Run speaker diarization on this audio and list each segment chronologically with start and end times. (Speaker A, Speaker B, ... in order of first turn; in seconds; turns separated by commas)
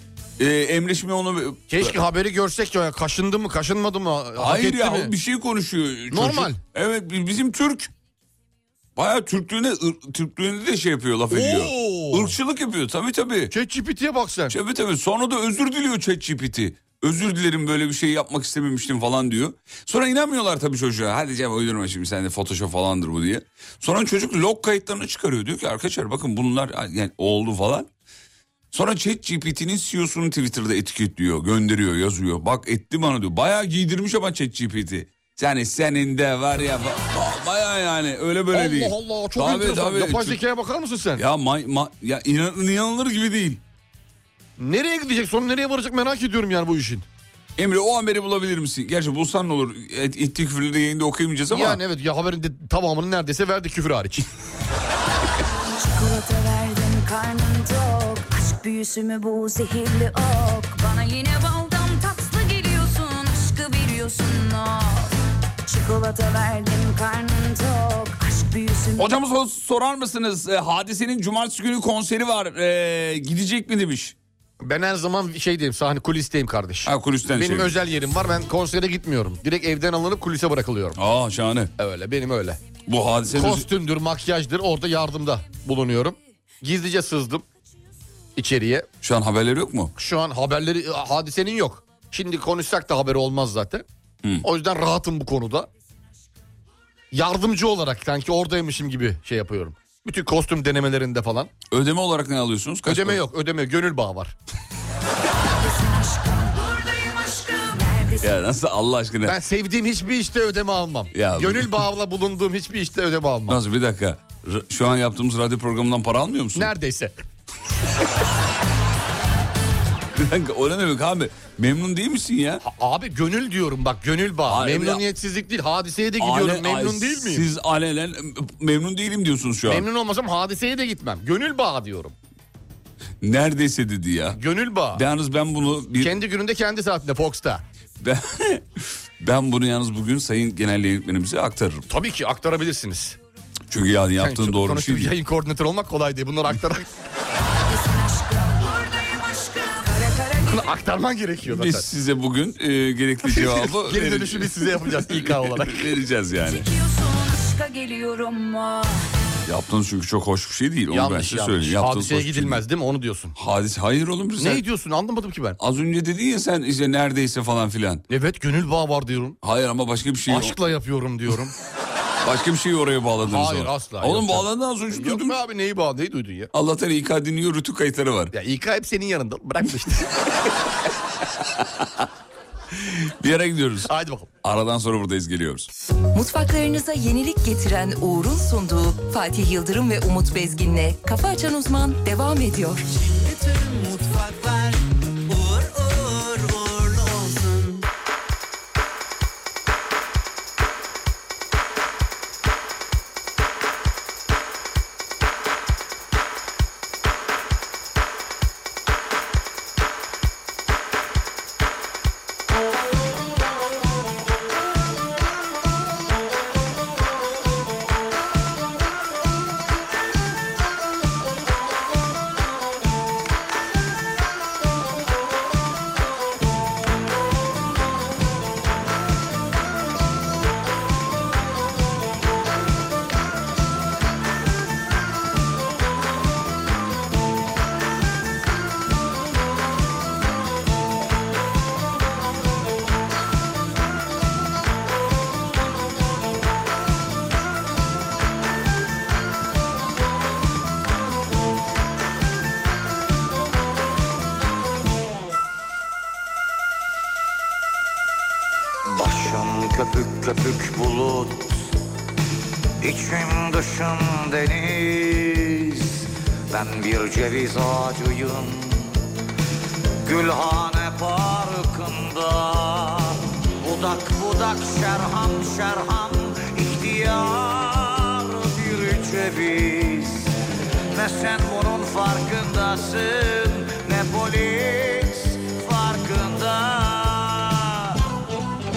Speaker A: 0.4-2.0, Speaker B: 1.7-5.1, Speaker A: 4.3-7.9, Speaker B: 6.1-6.6, Speaker A: 8.9-13.5, Speaker B: 11.3-12.3, Speaker B: 13.5-14.6, Speaker A: 14.5-27.9, Speaker A: 28.7-40.4, Speaker B: 38.5-41.2, Speaker A: 41.1-43.6, Speaker B: 44.6-47.1, Speaker A: 47.6-51.8, Speaker B: 51.5-54.2, Speaker C: 55.8-65.1, Speaker C: 65.6-69.1, Speaker A: 69.0-74.2, Speaker B: 74.6-81.0, Speaker A: 76.8-77.8, Speaker A: 81.0-81.7, Speaker B: 81.8-82.6, Speaker A: 82.8-83.7, Speaker B: 83.3-87.4, Speaker B: 88.3-88.9, Speaker A: 89.0-89.9, Speaker B: 90.0-93.8, Speaker B: 94.4-95.7, Speaker B: 97.1-101.5, Speaker A: 101.7-103.2, Speaker B: 102.8-104.3, Speaker C: 105.5-108.3, Speaker A: 108.2-109.4, Speaker B: 109.2-113.6, Speaker A: 111.1-111.8, Speaker A: 113.5-116.7, Speaker B: 116.5-117.2, Speaker A: 120.1-122.6, Speaker B: 122.6-127.5, Speaker A: 124.5-125.0, Speaker A: 126.2-129.8, Speaker B: 129.7-132.1, Speaker A: 133.2-134.4, Speaker B: 134.3-135.0, Speaker A: 134.9-136.2, Speaker B: 136.0-137.6, Speaker A: 138.0-141.8, Speaker B: 141.9-143.2, Speaker A: 143.7-145.1, Speaker B: 144.2-146.9, Speaker C: 147.7-150.7, Speaker B: 150.4-151.9, Speaker A: 151.4-156.7, Speaker B: 153.3-155.9, Speaker C: 156.4-159.1, Speaker A: 159.4-162.6, Speaker B: 160.9-163.3, Speaker A: 163.3-164.6, Speaker B: 164.4-165.6, Speaker A: 165.6-168.0, Speaker B: 168.1-169.4, Speaker A: 169.4-170.6, Speaker B: 170.3-171.5, Speaker A: 172.2-175.4, Speaker B: 173.2-176.5, Speaker A: 176.5-178.3, Speaker B: 178.3-180.2, Speaker A: 181.4-182.1, Speaker A: 182.7-183.9, Speaker B: 183.8-184.3, Speaker A: 184.4-185.7, Speaker D: 186.1-192.8, Speaker E: 192.9-197.8, Speaker F: 258.9-261.7, Speaker F: 262.8-269.0, Speaker F: 270.0-280.4, Speaker F: 280.9-288.0